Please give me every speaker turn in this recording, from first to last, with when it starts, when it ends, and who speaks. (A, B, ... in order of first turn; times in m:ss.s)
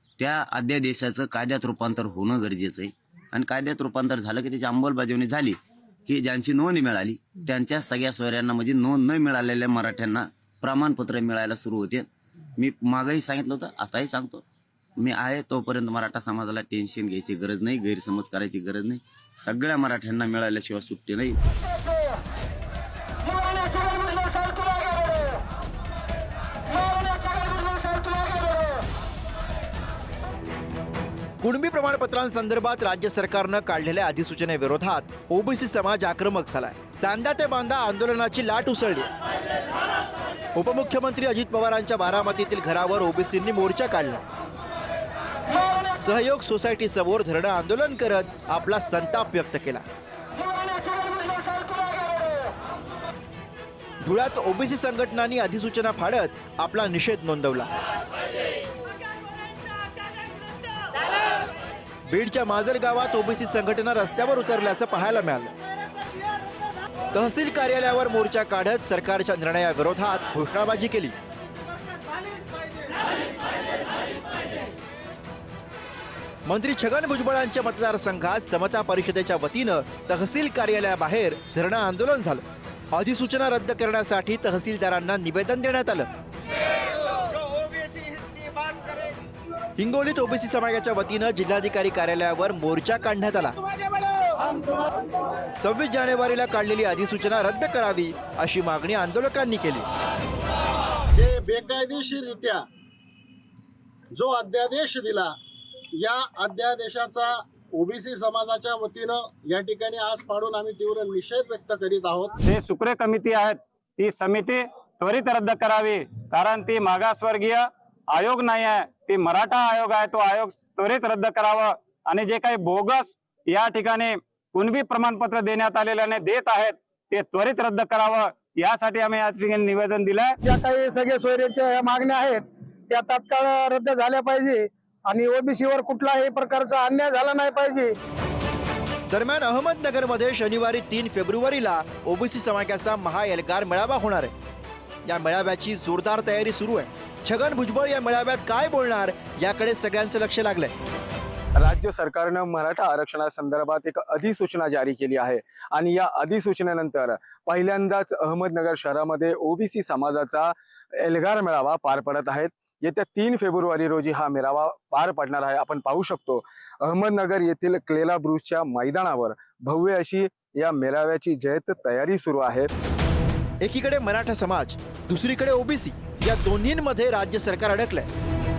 0:00.2-0:14.4 A
0:15.0-0:21.4 A
0:31.4-0:39.1 B
0:40.6-0:44.2 B
0:46.0-0:49.8 B
0:54.0-0:57.7 B
1:02.1-1:05.5 B
1:07.1-1:11.1 B
1:16.5-1:22.4 B
1:22.9-1:26.1 B
1:29.8-1:33.6 B
1:35.6-1:39.9 B
1:41.1-1:42.6 C
1:44.2-1:45.3 C
1:46.0-1:52.4 C
1:52.4-2:10.4 D
2:10.4-2:17.9 E
2:19.1-2:24.3 B
2:25.1-2:30.7 B
2:31.6-2:52.7 F
2:53.6-2:58.1 B